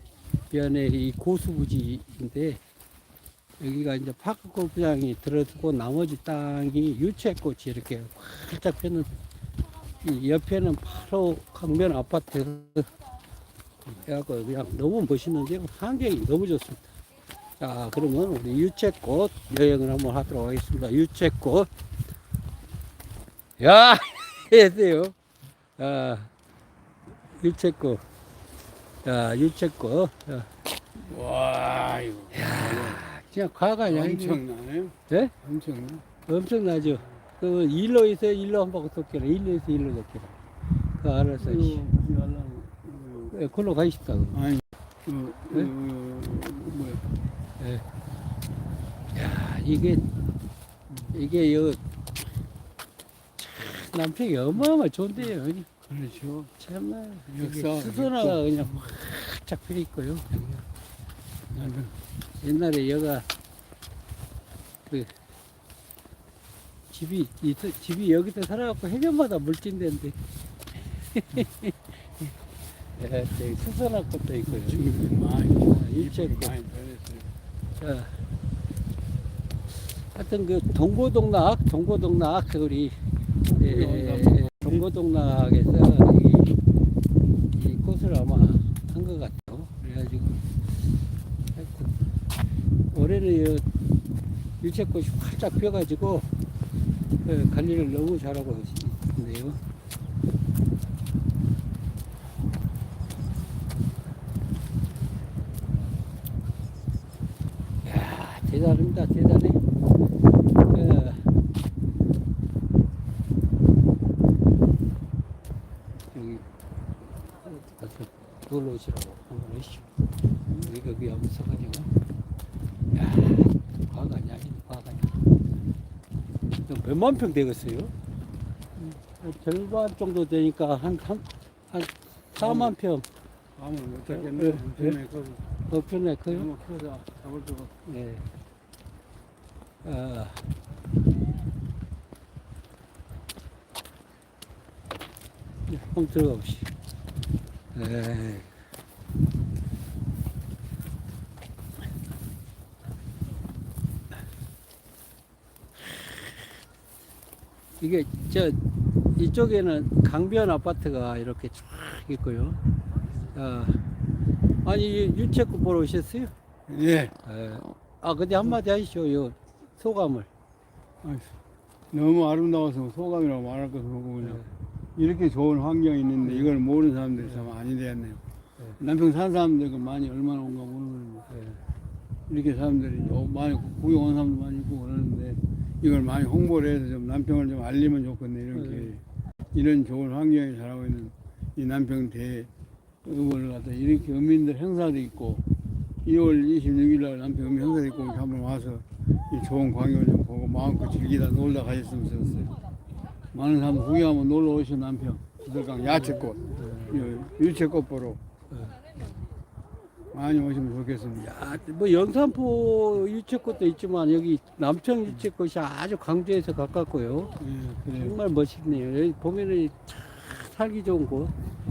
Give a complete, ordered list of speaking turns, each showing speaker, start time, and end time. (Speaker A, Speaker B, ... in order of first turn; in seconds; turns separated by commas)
Speaker A: 0.5-2.6, Speaker A: 3.6-9.1, Speaker A: 10.0-12.9, Speaker A: 13.9-16.8, Speaker A: 17.6-21.7, Speaker A: 23.6-25.1, Speaker A: 25.8-26.3, Speaker A: 27.4-28.0, Speaker A: 29.0-30.5, Speaker B: 30.9-33.0, Speaker A: 32.3-34.4, Speaker B: 33.9-36.0, Speaker A: 35.1-35.3, Speaker A: 36.2-40.3, Speaker A: 41.0-41.8, Speaker B: 41.4-43.4, Speaker A: 43.3-44.4, Speaker B: 44.3-47.0, Speaker A: 47.6-47.8, Speaker A: 49.1-50.0, Speaker B: 50.9-51.1, Speaker A: 51.1-51.8, Speaker A: 53.4-55.7, Speaker B: 55.9-56.5, Speaker A: 56.6-60.6, Speaker B: 57.3-58.6, Speaker B: 61.5-61.9, Speaker A: 62.4-63.2, Speaker A: 66.9-70.2, Speaker A: 70.8-72.3, Speaker A: 73.0-75.0, Speaker B: 74.5-77.3, Speaker A: 75.7-76.5, Speaker A: 77.8-78.1, Speaker A: 80.0-82.9, Speaker B: 83.6-84.8, Speaker A: 83.6-86.5, Speaker A: 87.5-90.4, Speaker A: 91.5-91.9, Speaker A: 92.9-93.6, Speaker A: 94.6-96.3, Speaker A: 97.2-99.6, Speaker A: 107.8-109.6, Speaker A: 110.7-111.2, Speaker A: 116.1-116.4, Speaker A: 117.4-119.8, Speaker A: 120.5-121.9, Speaker A: 122.9-125.2, Speaker A: 126.7-127.9, Speaker A: 128.8-133.1, Speaker B: 132.4-132.8, Speaker B: 133.6-135.4, Speaker A: 134.1-135.0, Speaker A: 135.7-136.5, Speaker B: 136.3-137.7, Speaker A: 137.8-138.2, Speaker A: 139.8-140.4, Speaker A: 145.7-146.7, Speaker A: 147.7-148.5, Speaker A: 157.8-158.6, Speaker A: 159.1-162.6, Speaker A: 163.3-163.8, Speaker A: 164.6-166.3, Speaker B: 166.7-167.1, Speaker A: 167.2-170.3, Speaker B: 171.0-171.3, Speaker B: 171.9-174.4, Speaker A: 174.2-174.5, Speaker B: 174.9-178.2, Speaker A: 176.2-176.5, Speaker B: 178.8-181.3, Speaker A: 181.3-181.6, Speaker B: 182.3-192.5, Speaker A: 188.5-188.9, Speaker B: 193.0-195.4, Speaker B: 196.0-202.5, Speaker B: 203.3-208.2, Speaker A: 205.9-207.1, Speaker A: 208.5-208.8, Speaker B: 210.1-211.4, Speaker A: 211.2-217.4, Speaker B: 217.4-218.2, Speaker A: 217.9-221.3